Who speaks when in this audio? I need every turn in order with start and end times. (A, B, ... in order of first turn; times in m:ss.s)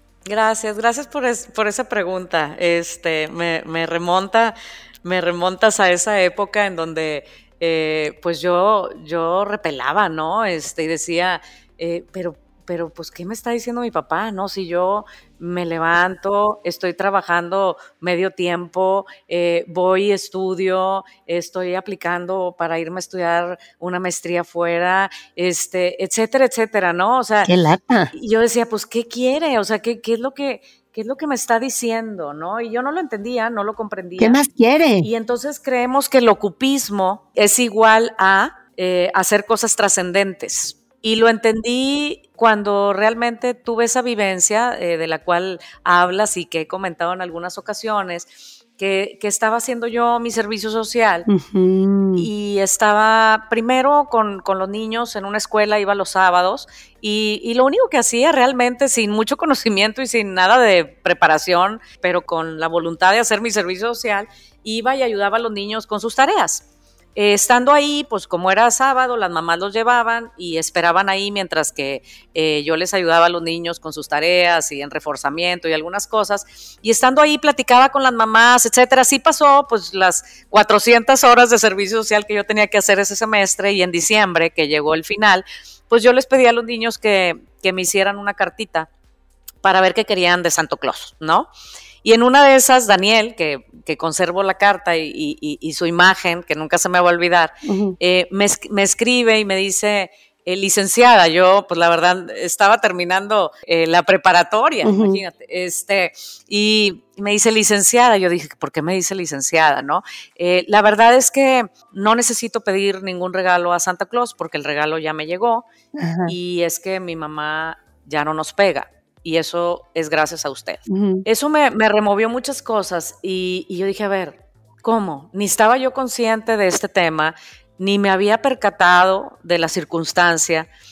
0:00.3-0:27.5 A
0:27.4-0:28.1 B
0:28.1-0:34.4 A
0:34.2-0:35.1 B
0:35.0-0:51.3 A
0:51.3-0:52.3 B
0:52.2-1:06.6 A
1:07.2-1:28.9 A
1:29.6-1:31.5 A
1:32.0-1:55.6 A
1:37.6-1:38.0 B
1:44.8-1:45.2 B
1:56.0-1:56.3 B
1:56.3-2:10.7 A
2:00.9-2:01.2 B